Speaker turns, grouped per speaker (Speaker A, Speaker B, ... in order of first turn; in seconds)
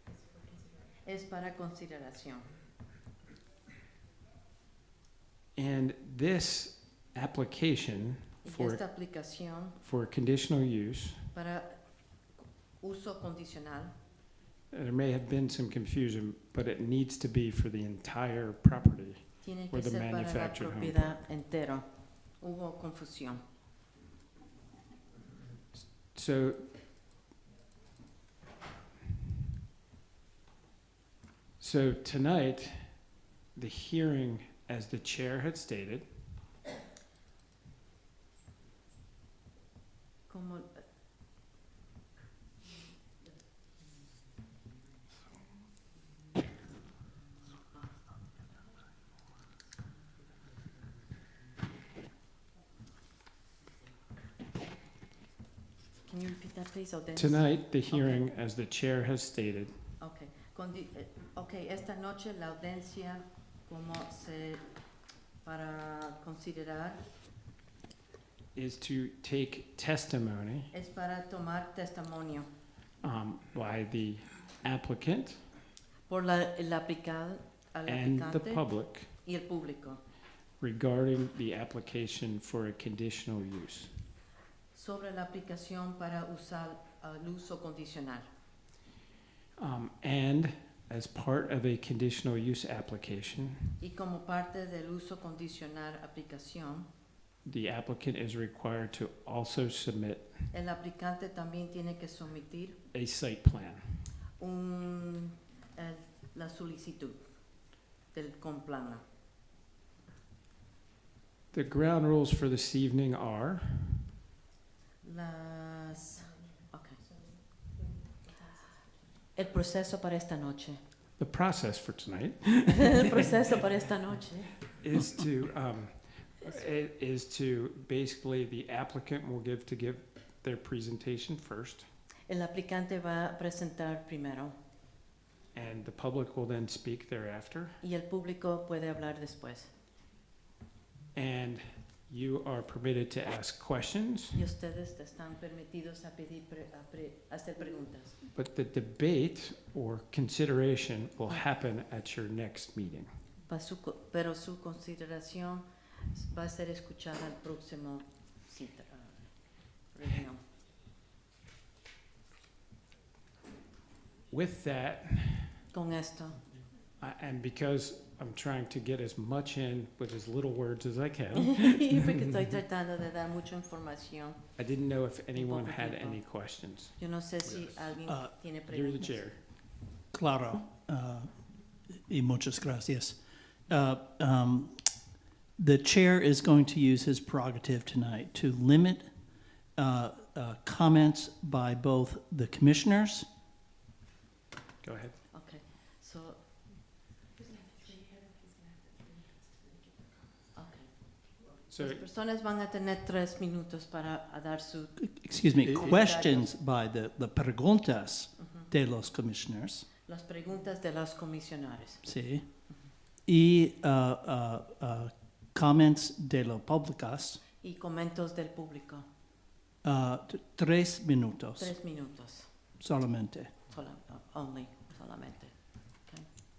Speaker A: 1.0-2.5, 8.4-9.8, 11.3-13.9, 19.4-23.4, 40.3-40.8, 56.0-58.3, 60.0-64.8, 65.4-67.0, 70.7-72.5, 76.1-80.0, 84.7-88.3, 93.8-96.9, 100.5-102.8, 104.4-107.4, 108.1-109.0, 115.0-117.0, 119.3-120.8, 122.7-124.7, 132.3-134.5, 137.8-139.7, 144.3-148.2, 153.5-160.4, 165.7-166.4, 171.3-174.5, 175.3-176.3, 177.0-179.3, 195.3-196.4, 200.5-206.5, 208.4-208.7, 210.1-212.2, 217.6-219.0, 221.6-222.5, 223.7-226.3
Speaker B: 5.5-11.3, 14.7-21.1, 25.8-26.7, 31.6-36.3, 57.1-59.7, 68.5-70.7, 73.0-75.4, 77.8-79.1, 80.6-84.0, 89.6-93.8, 97.4-100.3, 102.9-104.0, 111.5-114.1, 121.2-123.1, 124.7-131.9, 135.5-137.8, 141.1-144.4, 148.2-153.1, 164.3-165.6, 167.0-172.0, 174.6-176.9, 178.7-179.4, 194.8-195.2, 201.7-202.0
Speaker C: 178.1-178.3, 180.1-183.2, 183.7-184.9, 185.6-189.1, 189.7-193.3, 205.0-209.9, 212.0-212.7, 213.2-217.4, 219.8-221.7, 222.8-223.5